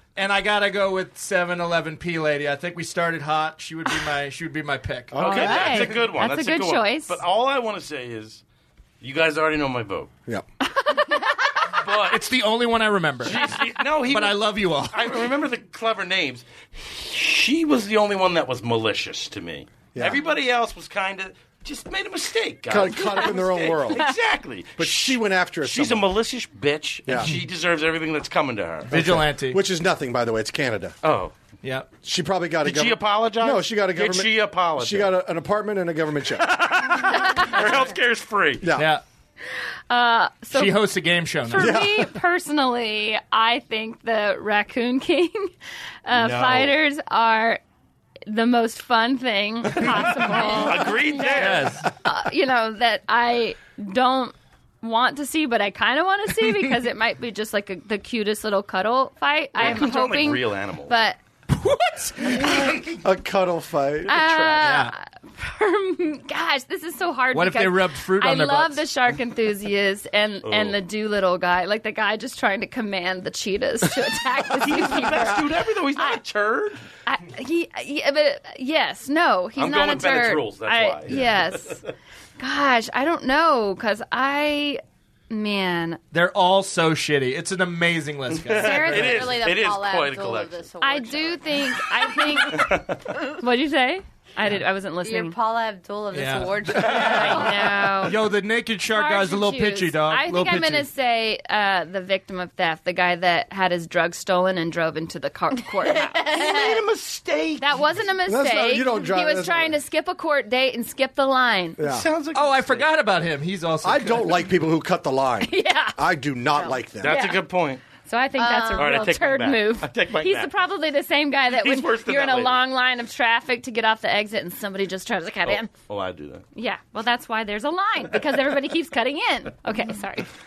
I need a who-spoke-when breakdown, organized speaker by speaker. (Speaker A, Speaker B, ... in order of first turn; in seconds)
Speaker A: 0.1-5.9, 11.9-15.3, 28.9-29.6, 31.6-31.9, 38.7-39.0, 40.5-41.8, 51.4-51.9, 61.5-62.6, 64.6-64.9, 67.3-68.8, 86.1-89.2, 96.1-100.9, 112.3-114.4
Speaker B: 5.1-5.9, 19.9-20.2, 22.7-24.0, 24.8-26.1, 27.1-27.3, 28.9-30.9, 32.0-36.5, 38.6-38.9, 41.5-42.1, 46.1-46.7, 62.8-64.8, 108.2-109.8, 111.8-112.1, 113.8-117.2
Speaker C: 5.1-8.4, 9.0-10.1, 11.7-12.5, 13.2-29.1, 31.0-31.4, 32.6-35.1, 36.4-38.7, 50.3-51.8, 59.6-60.9, 70.4-70.8, 74.5-76.8, 79.5-81.9, 88.3-90.7, 92.5-93.0, 106.2-107.9, 111.8-113.1, 117.0-117.8, 118.7-120.5, 121.5-122.6, 125.4-126.4
Speaker D: 5.3-7.2, 10.8-11.3, 39.9-45.5, 46.0-47.6, 48.3-61.2, 62.2-62.7, 64.0-76.2, 77.0-81.8, 82.4-86.0, 90.8-95.3, 96.9-98.2, 98.9-106.2, 107.6-111.8, 115.4-116.0, 117.0-125.7, 126.5-130.3
Speaker E: 88.5-92.6, 95.0-98.1, 106.3-106.8, 118.3-119.0